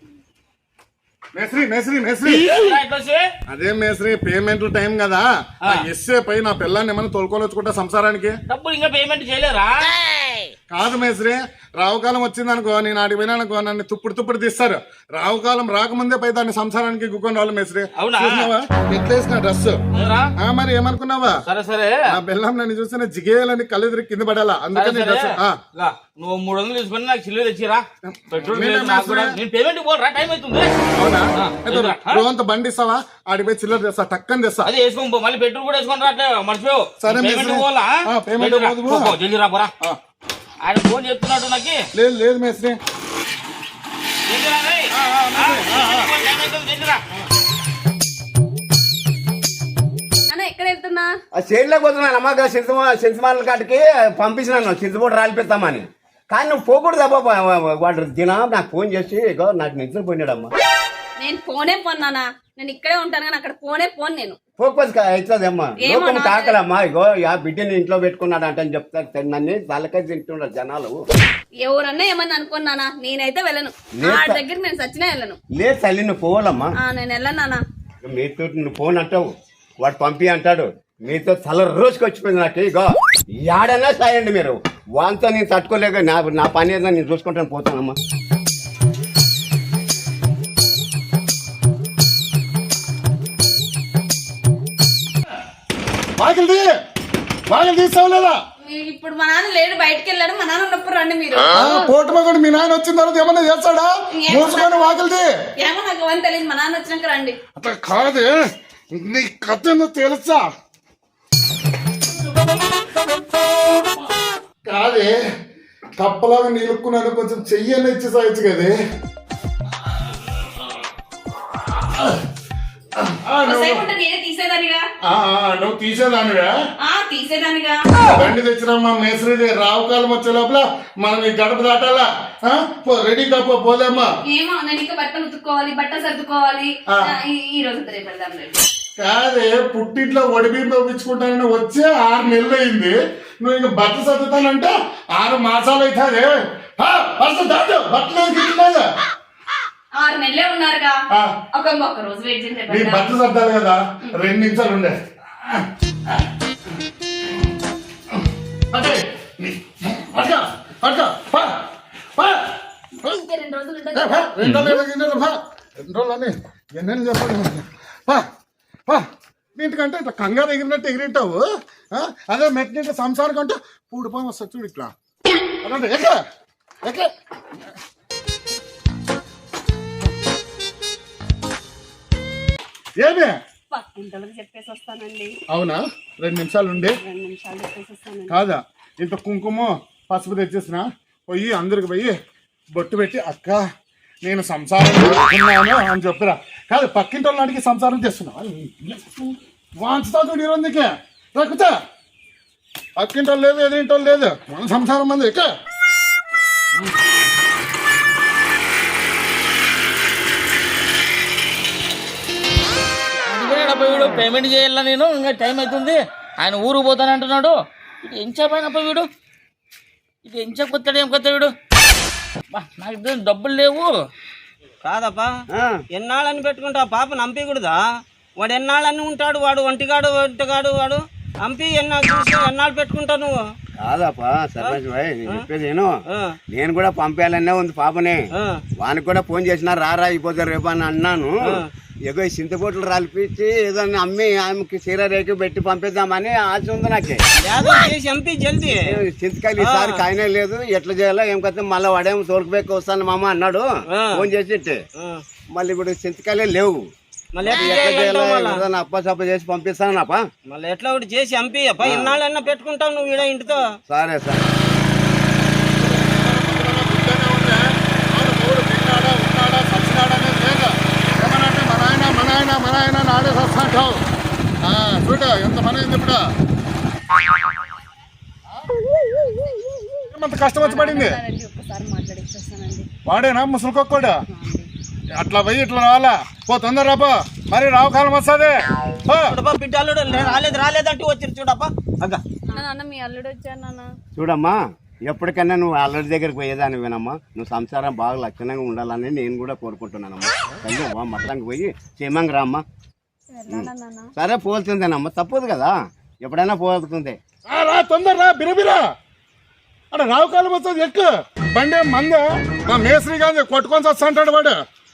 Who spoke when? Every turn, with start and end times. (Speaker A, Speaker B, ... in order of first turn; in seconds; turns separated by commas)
Speaker A: 1.4-2.8, Speaker B: 2.2-3.2, Speaker A: 3.5-8.3, Speaker B: 8.5-9.9, Speaker A: 10.7-19.8, Speaker B: 18.0-18.5, Speaker B: 19.9-20.3, Speaker A: 20.4-21.4, Speaker B: 21.5-22.0, Speaker A: 22.1-25.6, Speaker B: 24.7-30.8, Speaker A: 28.1-29.4, Speaker A: 31.0-34.7, Speaker B: 31.4-32.2, Speaker B: 34.6-39.7, Speaker A: 37.0-39.2, Speaker B: 40.6-41.8, Speaker A: 42.0-42.8, Speaker B: 44.3-47.0, Speaker A: 44.9-46.1, Speaker C: 50.3-51.1, Speaker D: 51.4-60.5, Speaker C: 61.2-64.4, Speaker D: 64.6-71.0, Speaker C: 65.8-66.6, Speaker C: 71.6-75.4, Speaker D: 74.0-74.4, Speaker D: 75.5-76.7, Speaker C: 76.8-77.6, Speaker D: 78.0-88.0, Speaker A: 96.2-96.7, Speaker A: 97.5-98.4, Speaker C: 98.6-101.8, Speaker A: 101.5-105.3, Speaker C: 104.2-104.9, Speaker C: 105.6-107.4, Speaker A: 107.6-110.5, Speaker A: 114.7-115.2, Speaker A: 116.0-118.8, Speaker A: 121.7-122.2, Speaker A: 123.0-123.8, Speaker C: 123.4-124.8, Speaker A: 125.0-126.5, Speaker C: 126.8-128.0, Speaker A: 128.1-134.1, Speaker C: 134.2-138.6, Speaker A: 139.0-148.9, Speaker C: 149.9-151.0, Speaker C: 151.5-153.1, Speaker A: 152.7-156.2, Speaker A: 158.7-161.6, Speaker A: 162.2-162.5, Speaker C: 163.0-164.3, Speaker A: 163.9-168.2, Speaker B: 164.4-164.7, Speaker A: 168.9-174.9, Speaker A: 175.6-176.2, Speaker A: 176.8-177.1, Speaker A: 183.0-183.3, Speaker C: 183.7-185.3, Speaker A: 185.5-187.0, Speaker C: 186.8-188.4, Speaker A: 188.3-192.2, Speaker A: 192.8-193.6, Speaker A: 194.2-201.7, Speaker A: 203.0-205.5, Speaker B: 213.2-219.1, Speaker B: 220.2-221.5, Speaker B: 222.5-223.9, Speaker E: 224.9-225.3, Speaker B: 224.9-225.2, Speaker D: 225.6-225.8, Speaker E: 226.0-227.8, Speaker B: 226.0-227.2, Speaker E: 228.4-233.4, Speaker B: 231.5-233.2, Speaker D: 233.8-235.9, Speaker D: 236.5-238.2, Speaker D: 238.8-247.2, Speaker E: 247.4-248.8, Speaker D: 248.8-254.8, Speaker E: 249.6-250.0, Speaker E: 254.0-254.2, Speaker D: 255.5-256.9, Speaker E: 257.4-258.6, Speaker D: 257.4-260.2, Speaker E: 260.5-263.7, Speaker D: 261.8-262.2, Speaker D: 263.9-264.5, Speaker A: 265.7-274.0, Speaker A: 274.6-276.2, Speaker A: 280.1-281.2, Speaker C: 280.6-282.9, Speaker A: 283.1-284.2, Speaker C: 284.3-284.7, Speaker A: 285.2-288.6, Speaker A: 289.1-289.4, Speaker E: 289.3-292.2, Speaker D: 290.1-290.4, Speaker C: 292.5-293.9, Speaker D: 294.1-294.6, Speaker D: 295.1-302.6, Speaker C: 303.3-304.1, Speaker D: 303.5-307.2, Speaker A: 307.5-308.8, Speaker A: 309.9-314.6